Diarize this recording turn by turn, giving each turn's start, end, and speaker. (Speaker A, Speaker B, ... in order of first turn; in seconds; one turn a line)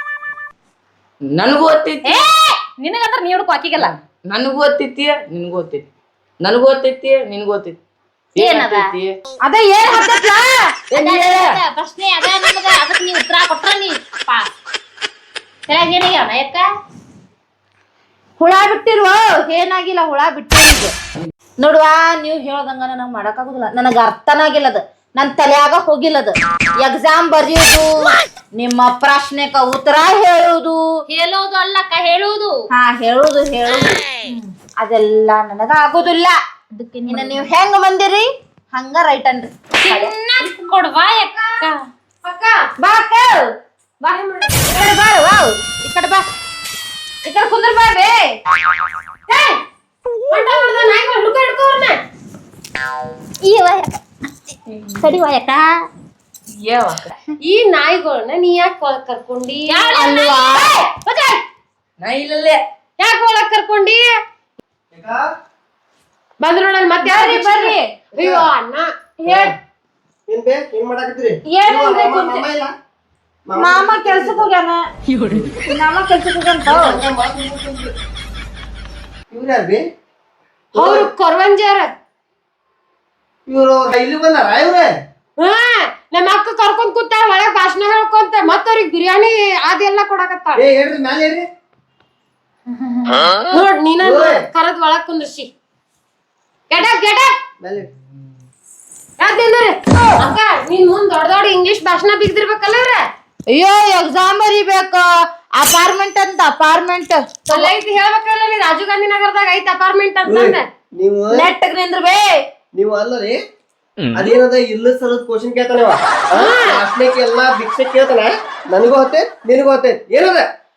Speaker A: 1.3-2.2
Speaker B: 2.0-3.9
Speaker A: 3.8-5.8
Speaker A: 6.4-7.8
Speaker A: 8.3-9.1
Speaker B: 8.4-8.9
Speaker C: 9.4-10.5
Speaker A: 10.9-11.6
Speaker B: 10.9-14.5
Speaker B: 15.7-16.7
Speaker C: 18.4-20.9
Speaker C: 21.6-31.0
Speaker B: 31.1-32.6
Speaker C: 32.7-34.0
Speaker C: 34.8-36.4
Speaker B: 36.7-37.5
Speaker C: 37.1-40.1
Speaker B: 39.8-41.8
Speaker D: 42.2-42.6
Speaker C: 42.8-43.5
Speaker C: 44.0-46.2
Speaker D: 44.1-44.7
Speaker C: 47.2-48.3
Speaker D: 49.3-49.6
Speaker D: 50.3-52.0
Speaker B: 53.4-54.0
Speaker B: 55.0-55.7
Speaker A: 56.5-57.1
Speaker D: 57.4-60.0
Speaker B: 59.7-61.4
Speaker C: 59.9-60.9
Speaker A: 62.0-62.6
Speaker D: 63.0-64.0
Speaker E: 64.9-65.2
Speaker D: 66.4-69.5
Speaker C: 67.0-67.8
Speaker E: 68.2-68.5
Speaker E: 70.3-72.7
Speaker B: 71.5-72.4
Speaker E: 73.5-74.5
Speaker C: 73.5-74.8
Speaker A: 75.1-75.5
Speaker E: 75.3-75.5
Speaker C: 75.7-77.0
Speaker E: 76.6-77.9
Speaker E: 79.3-79.8
Speaker E: 80.7-81.1
Speaker D: 80.8-81.9
Speaker E: 83.5-84.9
Speaker D: 85.4-90.6
Speaker E: 90.5-91.5
Speaker D: 93.5-95.5
Speaker E: 94.0-94.5
Speaker D: 96.7-97.3
Speaker E: 97.6-97.9
Speaker D: 99.2-103.0
Speaker C: 103.5-107.7
Speaker D: 107.5-110.6
Speaker E: 110.2-111.5
Speaker C: 111.3-112.4
Speaker E: 112.7-113.4
Speaker E: 114.1-120.4
Speaker D: 116.3-116.8